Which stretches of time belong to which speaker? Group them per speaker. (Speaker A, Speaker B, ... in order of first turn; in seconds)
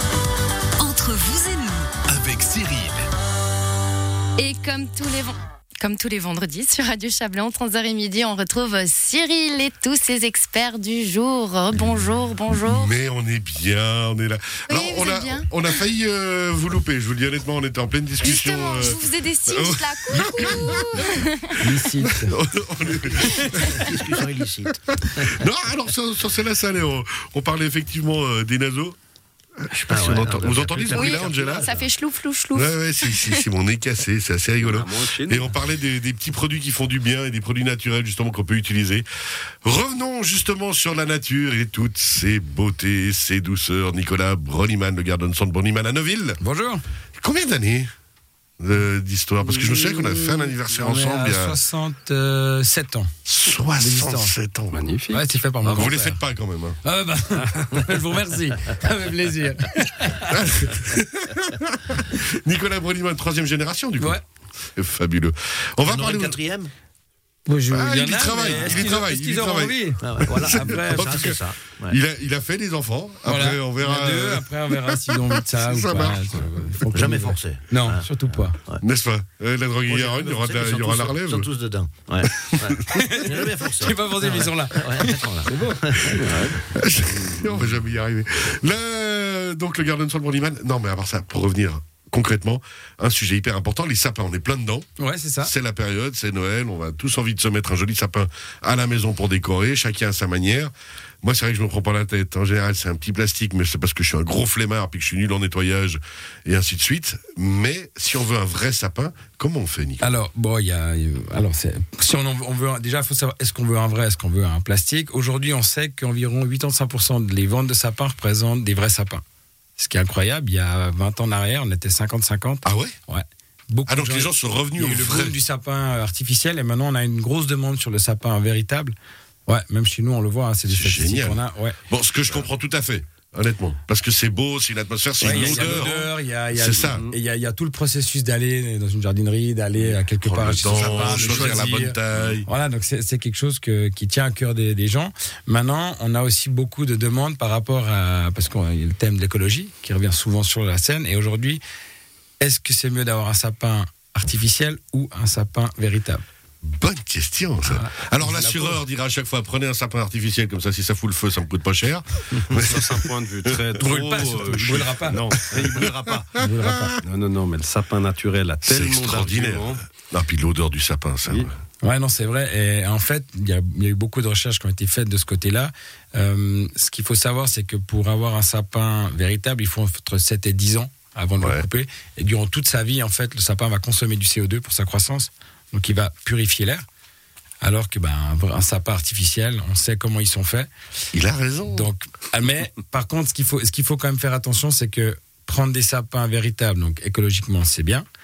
Speaker A: 0.8-1.9, 4.4-12.9, 14.7-15.8, 18.2-21.6, 30.9-33.4
Speaker B: 2.1-2.9, 34.6-35.6, 54.7-55.2, 86.2-86.6, 135.4-135.8, 140.9-141.7, 162.4-165.9, 167.0-169.8
Speaker C: 12.6-21.1, 22.0-24.2, 25.0-29.0, 29.6-31.7, 32.5-39.1, 39.6-46.4, 47.2-47.9, 48.6-51.6, 53.3-54.8, 55.6-56.8, 60.3-64.2, 64.8-66.4, 67.7-74.5, 75.3-76.4, 78.8-81.5, 86.6-94.9, 95.4-110.1, 122.7-123.0, 123.9-125.3, 130.7-137.1, 140.2-142.5, 156.6-165.8, 166.6-166.9, 168.6-171.5, 181.4-181.7, 191.1-191.9
Speaker D: 21.6-22.4, 46.4-46.8, 49.6-53.1, 53.7-54.4, 55.1-56.2, 56.8-60.7, 64.0-64.2, 67.5-71.3, 73.2-78.6, 82.9-86.1, 95.0-95.5, 110.0-119.2, 119.8-128.9, 129.5-131.8, 135.2-151.6, 152.4-156.2, 157.6-158.8, 163.8-165.2, 166.4-166.9, 171.8-186.8, 187.6-190.7, 191.7-198.1
Speaker E: 23.5-25.4, 29.9-31.9, 65.9-66.7, 68.3-68.9, 70.0-72.0, 76.9-78.8, 79.9-86.4, 165.5-166.3